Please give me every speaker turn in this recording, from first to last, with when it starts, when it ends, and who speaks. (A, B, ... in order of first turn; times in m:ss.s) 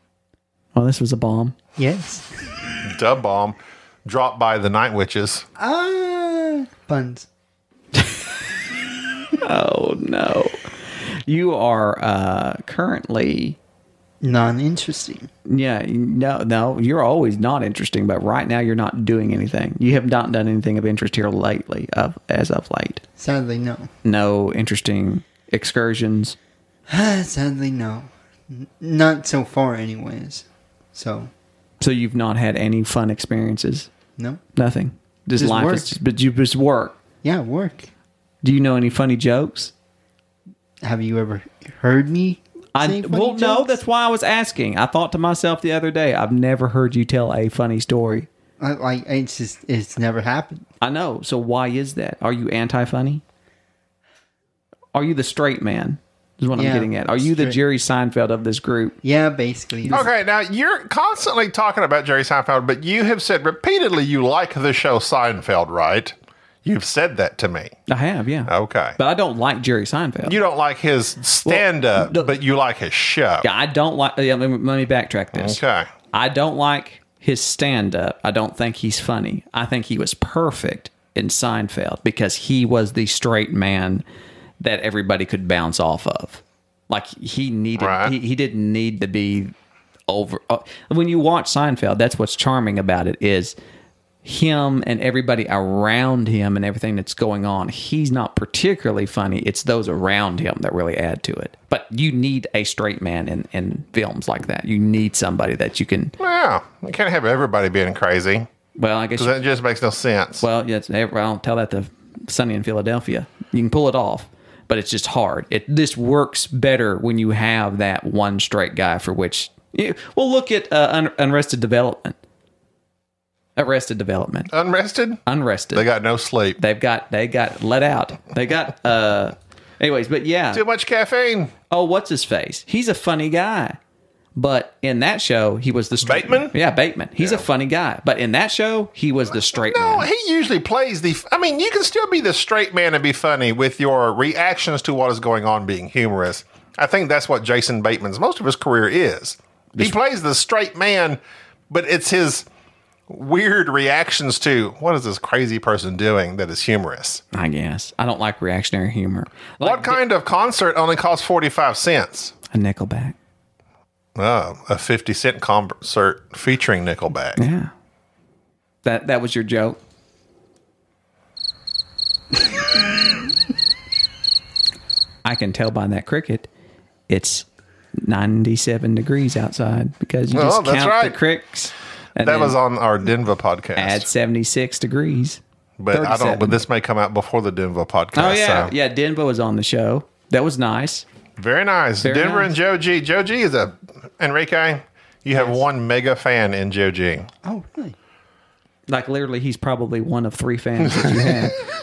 0:00.7-0:01.6 A
0:01.8-0:02.3 B
0:02.8-0:05.4 C
0:05.6-0:07.3 B
0:09.4-0:13.6 A
0:14.2-0:15.3 B
0:15.5-0:23.0 A
0:23.2-0:23.9 B
0:24.0-0:26.4 A
0:26.9-0:31.3 B
0:31.8-0:33.9 A
0:34.6-0:37.0 A
0:35.4-0:35.9 B
0:37.2-0:37.9 B
0:38.4-0:39.7 A
0:40.8-0:43.8 B
0:42.7-0:48.3 A
0:48.6-0:50.6 B
0:50.8-0:53.2 A
0:54.9-0:59.0 A
0:56.5-0:57.6 B
0:59.0-1:00.0 B
0:59.9-1:07.8 C
1:07.9-1:10.4 A
1:08.5-1:09.0 C
1:10.2-1:13.4 C
1:11.4-1:12.3 A
1:13.4-1:24.0 A
1:15.3-1:15.9 C
1:24.6-1:29.5 A
1:27.8-1:28.1 C
1:30.1-1:33.5 A
1:34.2-1:46.2 A
1:46.2-1:48.5 C
1:48.8-1:49.3 A
1:49.2-1:50.4 C
1:50.4-2:02.2 A
2:03.6-2:04.5 A
2:04.5-2:06.6 C
2:05.2-2:05.9 A
2:06.6-2:10.6 A
2:10.5-2:11.5 C
2:11.7-2:13.8 A
2:14.3-2:20.1 A
2:16.0-2:16.5 C
2:17.2-2:17.4 C
2:19.5-2:32.5 C
2:33.1-2:37.2 C
2:37.3-2:40.0 A
2:39.6-2:42.3 C
2:42.5-2:43.2 A
2:44.2-2:47.4 C
2:47.4-2:47.7 A
2:48.8-2:49.8 A
2:55.2-2:56.5 A
2:57.1-2:57.4 A
2:58.0-3:02.6 A
3:00.3-3:01.2 C
3:02.2-3:04.1 C
3:03.8-3:05.4 A
3:05.8-3:08.7 C
3:05.9-3:06.6 A
3:08.1-3:11.0 A
3:11.4-3:17.3 C
3:12.0-3:12.5 A
3:15.3-3:15.6 A
3:17.4-3:18.0 B
3:18.9-3:21.6 A
3:21.0-3:21.3 C